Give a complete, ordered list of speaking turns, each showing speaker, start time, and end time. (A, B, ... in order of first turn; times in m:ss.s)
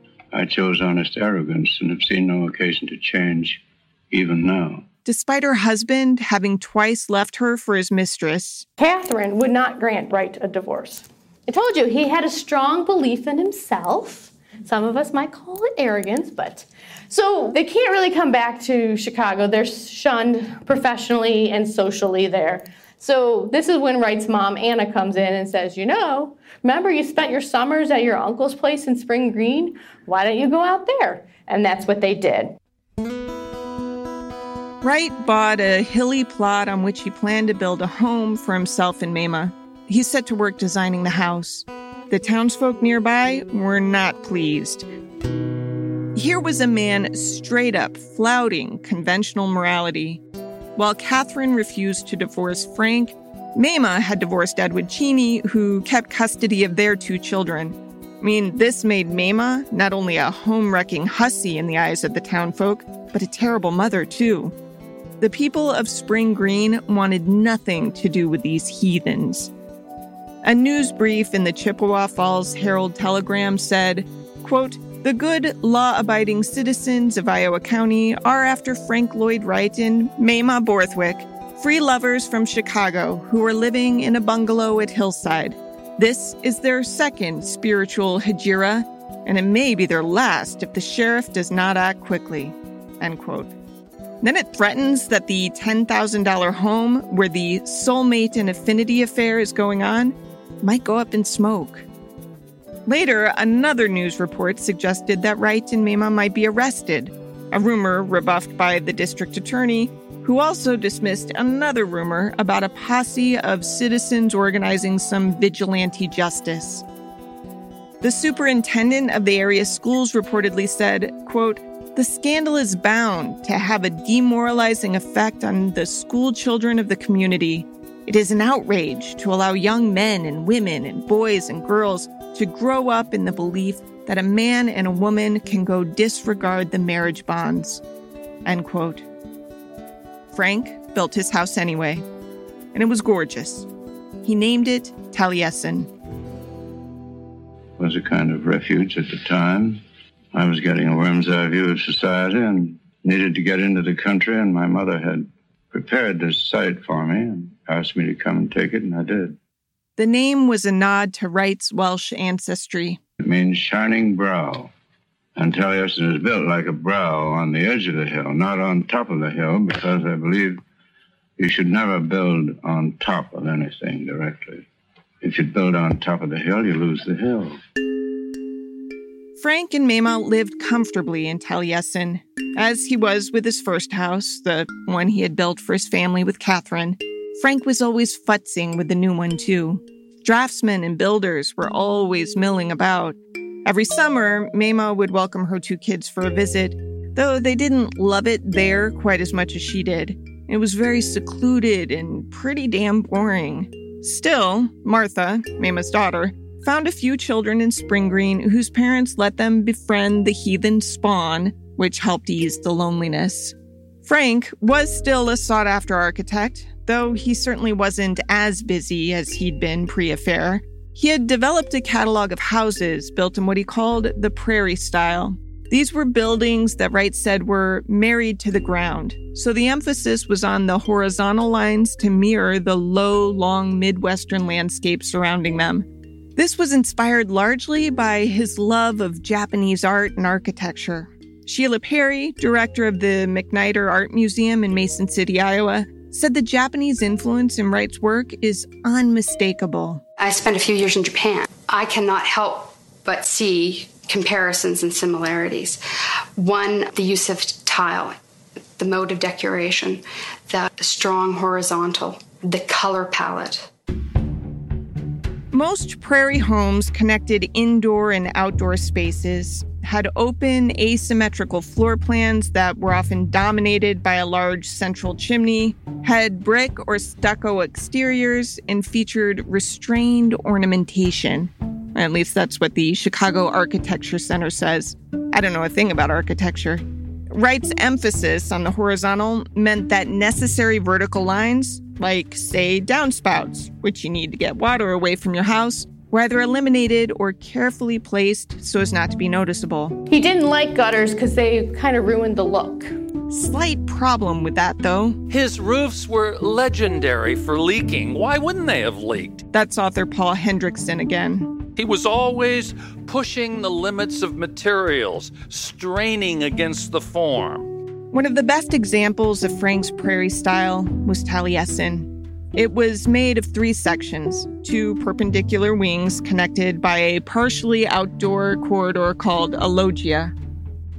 0:00.3-0:04.8 A
0:05.0-0:08.6 B
0:08.8-0:32.6 C
0:34.8-0:44.8 B
0:46.1-0:50.2 B
0:50.8-1:04.5 B
1:05.2-1:09.5 B
1:10.4-1:33.5 B
1:34.2-1:41.8 B
1:42.9-1:56.8 B
1:58.0-2:17.8 B
2:18.4-2:19.0 B
2:20.3-2:22.0 B
2:22.7-2:23.7 B
2:24.2-2:25.9 B
2:27.8-2:29.8 A
2:30.3-2:39.4 A
2:40.0-2:43.0 B
2:43.2-2:44.7 A
2:45.4-2:50.6 A
2:51.4-2:54.6 A
2:55.2-2:57.6 A
2:59.4-4:10.0 B
4:10.2-4:15.8 D
4:16.4-4:18.2 D
4:18.8-4:23.7 D
4:25.5-5:00.0 B
5:00.1-5:02.9 C
5:03.3-5:05.2 B
5:05.3-5:09.4 E
5:09.5-5:11.5 B
5:11.8-5:17.7 E
5:18.1-5:30.3 B